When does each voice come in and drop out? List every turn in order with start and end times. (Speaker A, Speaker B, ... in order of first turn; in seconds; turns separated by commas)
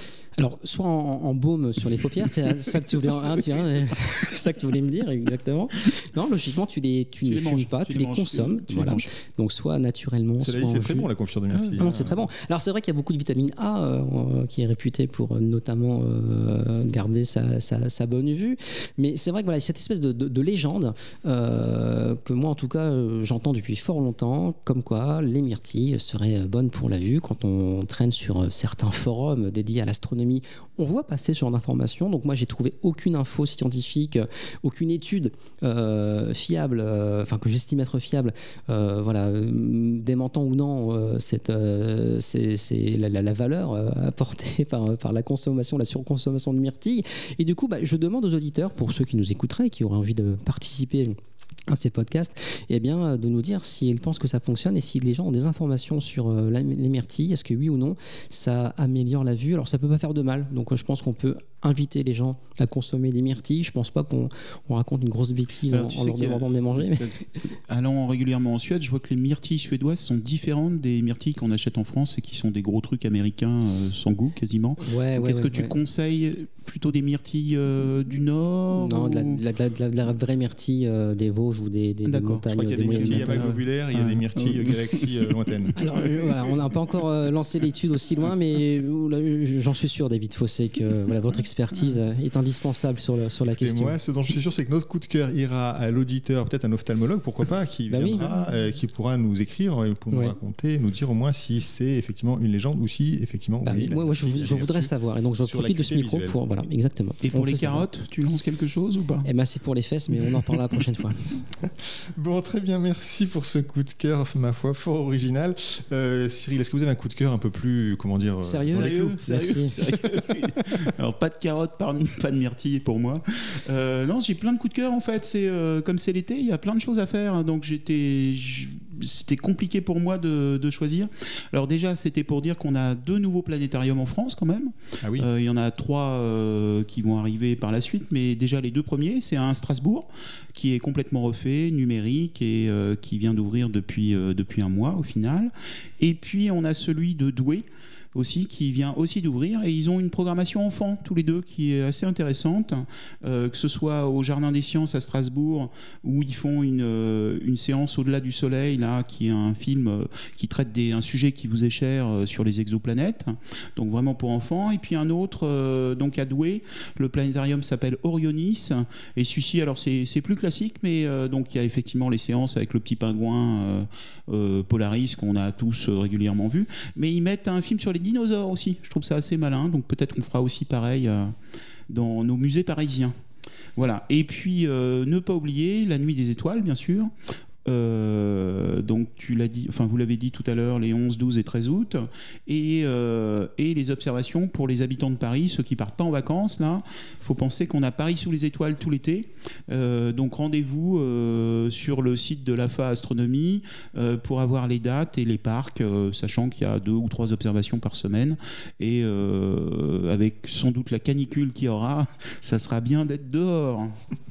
Speaker A: 0.4-11.1, Speaker B: 2.7-4.2, Speaker B: 7.2-9.1, Speaker C: 10.4-11.9, Speaker B: 11.5-12.2, Speaker A: 11.8-51.1, Speaker A: 51.7-67.1, Speaker B: 65.7-79.4, Speaker A: 74.8-75.8, Speaker A: 78.8-83.5, Speaker B: 82.0-85.3, Speaker C: 82.5-85.8, Speaker A: 85.8-94.0, Speaker C: 93.6-106.4, Speaker A: 97.9-98.2, Speaker B: 98.1-98.4, Speaker A: 103.6-107.8, Speaker B: 107.2-109.3, Speaker A: 109.2-111.4, Speaker C: 112.2-119.0, Speaker A: 118.4-119.8, Speaker B: 118.7-181.3, Speaker C: 135.0-135.3, Speaker B: 181.9-183.1, Speaker B: 183.8-187.1, Speaker B: 187.7-213.9